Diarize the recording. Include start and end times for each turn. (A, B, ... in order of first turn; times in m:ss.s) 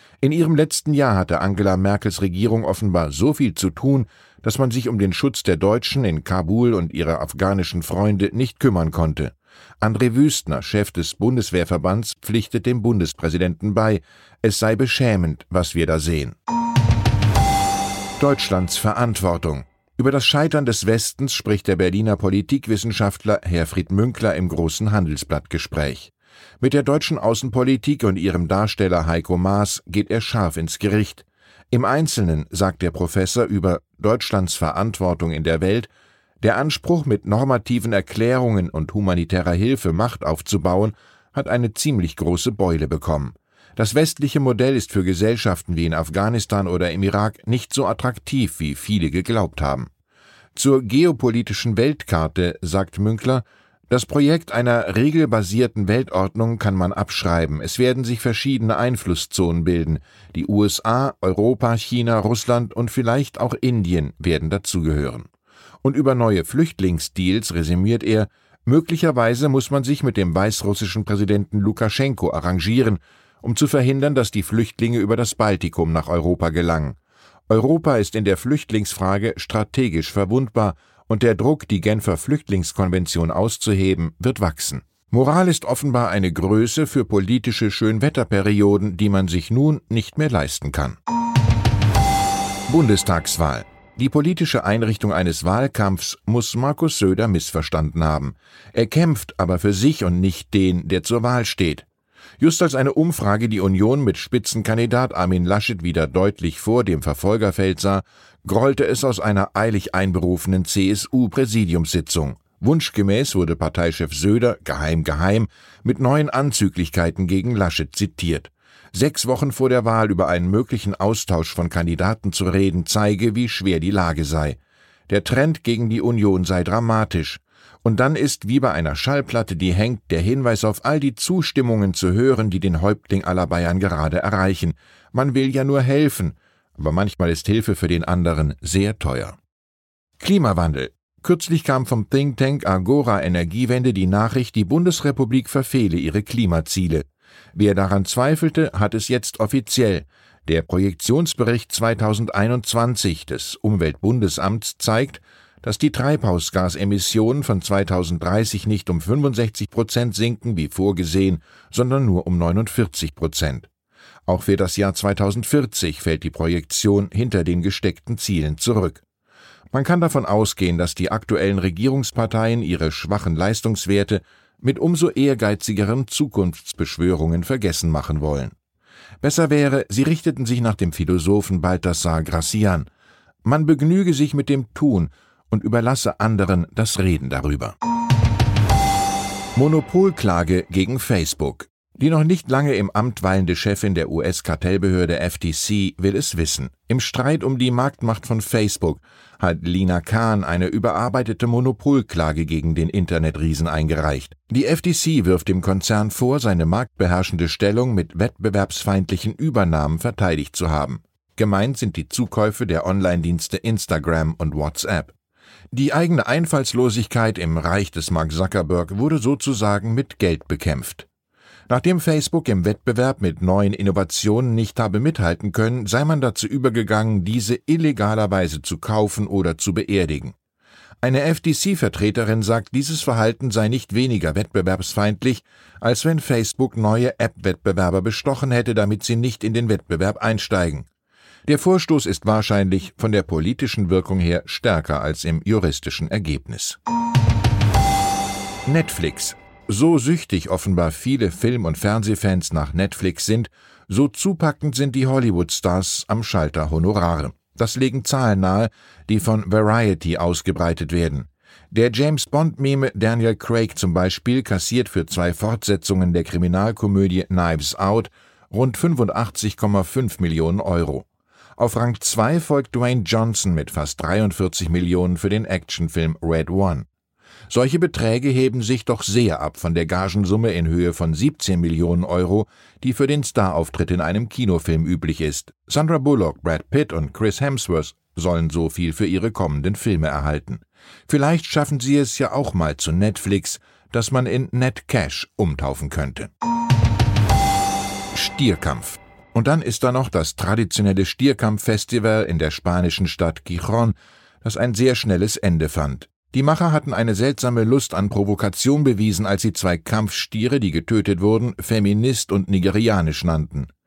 0:00.2-0:16.4 A
0:18.2-0:35.9 A
0:36.4-0:49.9 A
0:50.6-1:05.3 A
1:05.8-1:17.0 A
1:17.5-1:31.0 A
1:32.7-1:41.9 A
1:42.4-2:04.6 A
2:05.1-2:19.4 A
2:20.2-2:43.7 A
2:44.3-2:49.0 A
2:49.7-2:58.5 A
2:59.2-3:02.9 A
3:03.4-3:07.8 A
3:09.6-3:35.1 A
3:35.7-3:41.1 A
3:41.7-3:50.4 A
3:51.0-4:00.9 A
4:01.5-4:06.8 A
4:08.7-4:31.1 A
4:31.6-4:36.9 A
4:37.5-4:56.3 A
4:58.1-5:13.7 A